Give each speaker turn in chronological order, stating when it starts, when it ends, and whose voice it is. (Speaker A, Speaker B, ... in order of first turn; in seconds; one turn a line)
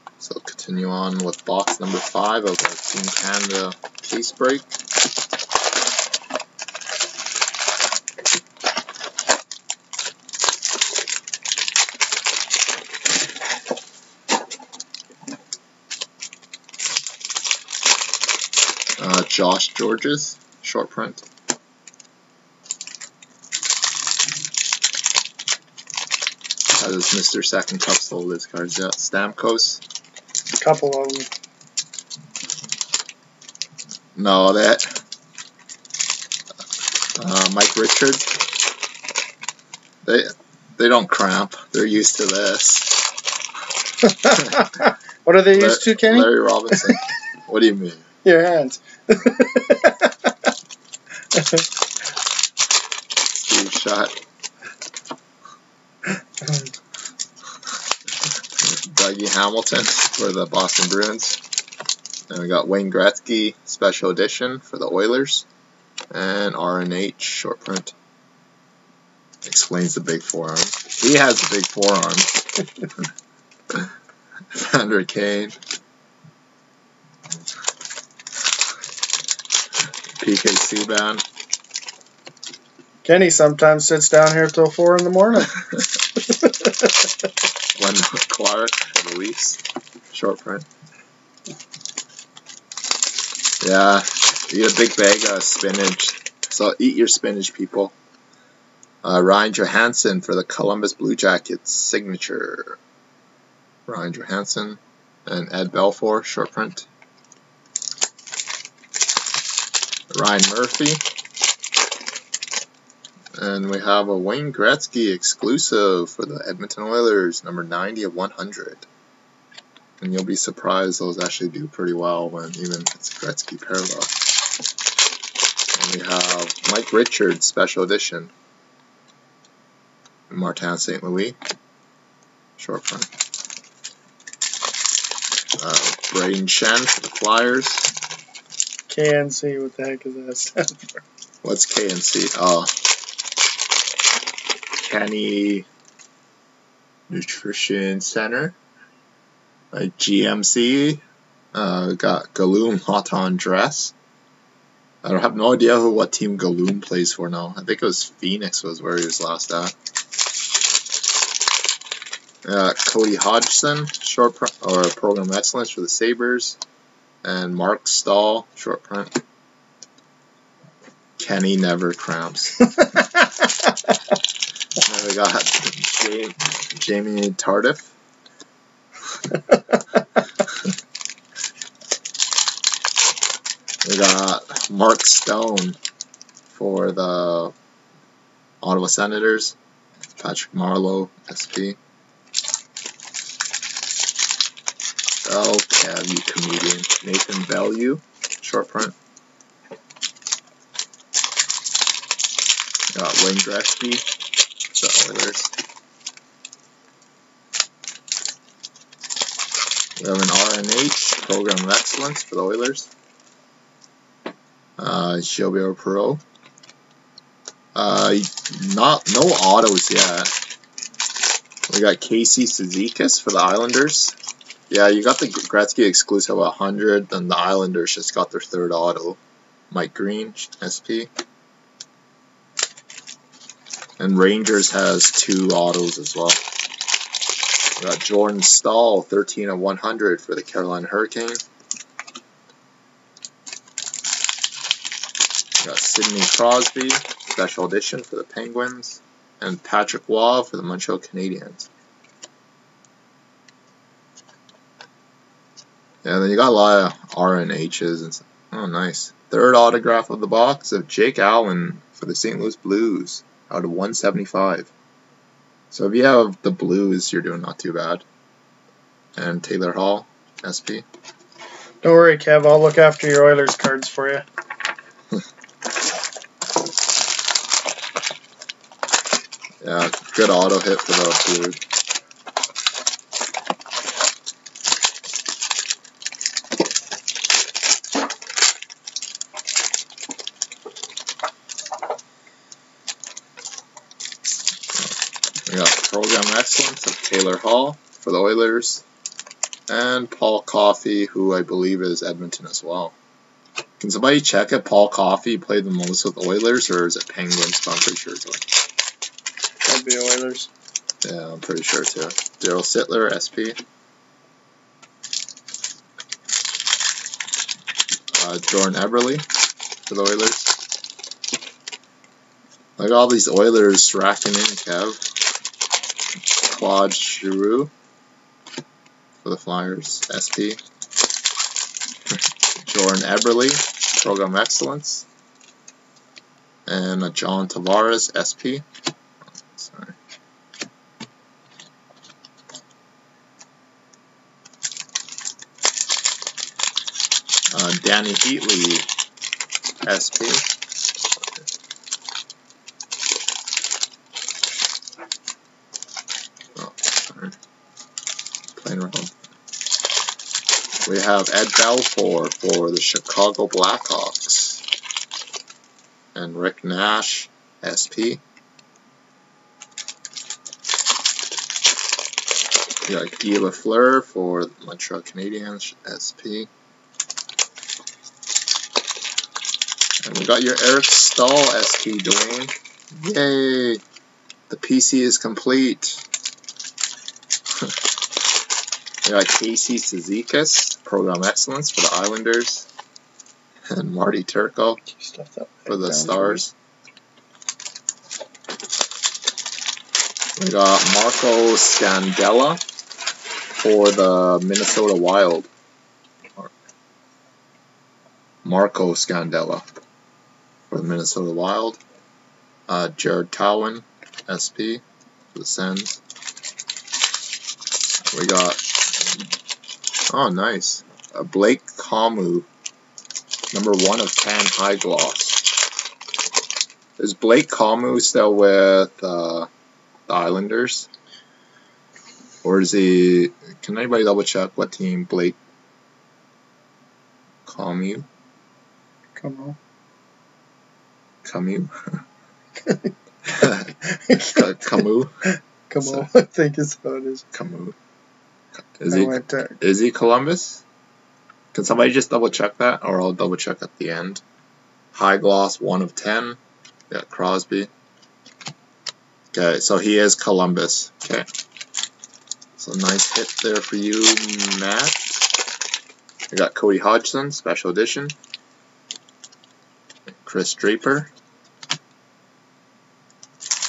Speaker A: 0.2-4.7
Speaker A: 19.0-21.2
Speaker A: 26.7-29.8
Speaker B: 30.5-31.3
Speaker A: 34.1-34.9
Speaker A: 37.2-38.3
Speaker A: 40.0-42.9
Speaker B: 44.0-47.0
Speaker A: 45.5-48.0
Speaker B: 48.2-50.5
Speaker B: 51.3-51.7
Speaker A: 53.3-54.1
Speaker B: 56.1-56.7
Speaker A: 58.6-61.4
Speaker A: 62.3-65.5
Speaker A: 66.1-67.9
Speaker A: 69.4-72.5
Speaker A: 74.5-75.6
Speaker A: 80.2-81.2
Speaker B: 83.0-85.6
Speaker B: 86.2-87.1
Speaker A: 87.8-90.7
Speaker A: 93.6-97.9
Speaker A: 99.0-102.8
Speaker A: 103.9-106.9
Speaker A: 110.1-111.0
Speaker A: 113.3-118.8
Speaker A: 120.0-124.1
Speaker A: 125.7-128.3
Speaker A: 130.3-131.4
Speaker A: 132.6-133.1
Speaker A: 135.6-137.9
Speaker B: 138.9-141.0
Speaker A: 141.4-142.7
Speaker A: 144.8-145.7
Speaker A: 147.1-148.6
Speaker A: 149.7-151.0
Speaker A: 151.5-153.9
Speaker A: 155.0-159.7
Speaker A: 162.4-166.6
Speaker A: 167.2-169.1
Speaker A: 171.2-172.7
Speaker B: 172.8-173.7
Speaker A: 174.8-177.9
Speaker A: 183.8-185.8
Speaker A: 186.5-187.5
Speaker A: 188.6-189.6
Speaker A: 190.2-191.8
Speaker A: 195.2-198.9
Speaker A: 202.9-204.1
Speaker A: 204.8-205.5
Speaker A: 210.0-212.9
Speaker A: 214.8-216.2
Speaker A: 217.7-220.3
Speaker A: 221.7-224.2
Speaker A: 224.7-229.2
Speaker A: 229.7-231.1
Speaker A: 234.0-236.4
Speaker A: 237.8-241.4
Speaker A: 245.6-251.7
Speaker A: 256.0-264.7
Speaker A: 265.7-268.0
Speaker A: 269.1-270.8
Speaker B: 271.8-274.2
Speaker A: 279.6-281.6
Speaker A: 295.4-298.8
Speaker A: 299.7-302.9
Speaker A: 303.8-308.4
Speaker B: 309.6-310.5
Speaker A: 311.0-313.6
Speaker A: 318.1-319.2
Speaker A: 319.9-320.5
Speaker A: 322.8-325.0
Speaker A: 326.4-327.7
Speaker A: 329.2-330.6
Speaker A: 332.6-335.1
Speaker A: 336.6-338.6
Speaker A: 339.4-339.9
Speaker A: 347.5-348.9
Speaker A: 349.8-350.5
Speaker A: 356.5-357.4
Speaker A: 358.6-359.1
Speaker A: 360.8-364.6
Speaker A: 366.1-368.2
Speaker A: 372.9-376.5
Speaker A: 380.0-383.8
Speaker A: 384.5-386.0
Speaker A: 389.0-392.7
Speaker A: 393.7-394.8
Speaker B: 394.9-396.4
Speaker A: 395.7-396.5
Speaker A: 400.4-402.6
Speaker A: 403.5-405.5
Speaker A: 408.4-409.8
Speaker A: 410.7-411.8
Speaker A: 412.7-414.8
Speaker A: 415.3-416.0
Speaker A: 418.1-419.1
Speaker A: 420.1-422.5
Speaker A: 423.5-425.4
Speaker A: 427.0-429.5
Speaker A: 430.1-430.9
Speaker A: 432.4-435.4
Speaker A: 437.4-438.1
Speaker B: 439.1-439.6
Speaker A: 441.2-442.0
Speaker B: 442.6-442.9
Speaker A: 443.3-445.1
Speaker B: 443.8-447.2
Speaker A: 445.8-446.1
Speaker A: 447.3-447.8
Speaker A: 448.8-450.6
Speaker B: 448.9-449.6
Speaker A: 451.5-454.2
Speaker A: 454.9-456.4
Speaker A: 456.9-457.7
Speaker A: 459.3-461.3
Speaker A: 462.6-465.0
Speaker A: 466.3-468.1
Speaker A: 470.1-471.1